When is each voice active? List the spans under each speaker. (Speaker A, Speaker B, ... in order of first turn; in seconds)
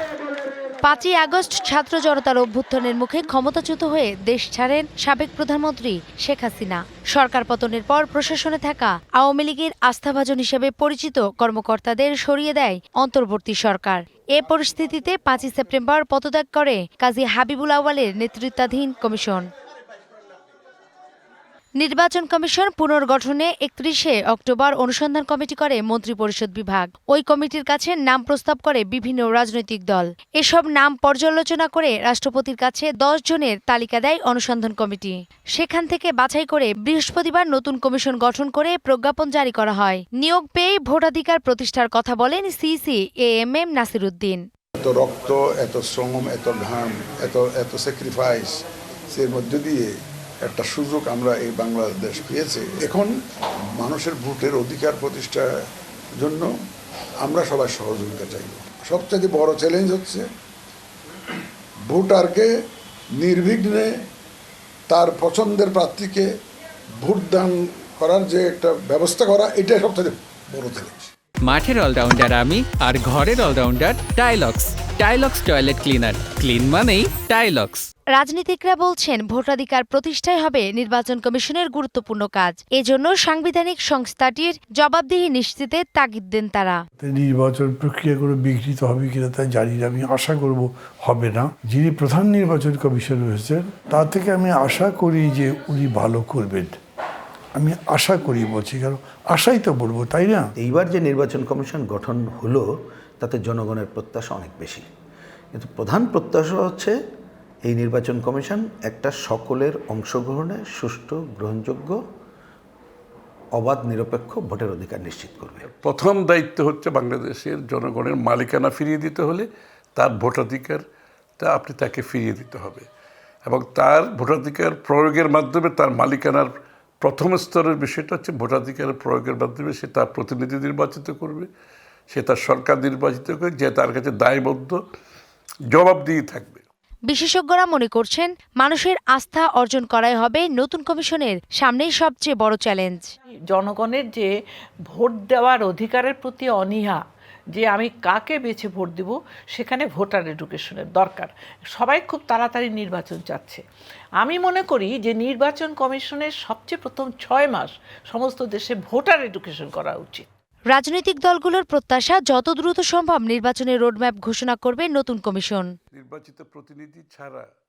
Speaker A: 0.8-19.5, 21.8-44.4, 78.1-86.8, 137.1-143.1, 160.7-165.7
Speaker B: 44.8-49.9, 50.4-53.1, 53.8-55.5, 56.2-56.5, 57.2-60.2, 61.9-62.5, 63.2-63.9, 64.9-66.3, 67.0-71.1
Speaker C: 71.4-77.9
Speaker D: 87.0-96.8, 97.5-100.5
Speaker E: 100.6-102.7, 103.2-104.8, 105.5-106.9, 107.6-112.0, 113.5-115.7
Speaker F: 115.7-120.8, 121.4-122.9, 123.5-126.5, 127.0-131.5, 132.1-134.8, 135.7-136.6, 165.9-167.5
Speaker G: 143.5-144.3, 144.9-147.0, 147.5-153.6, 154.2-160.2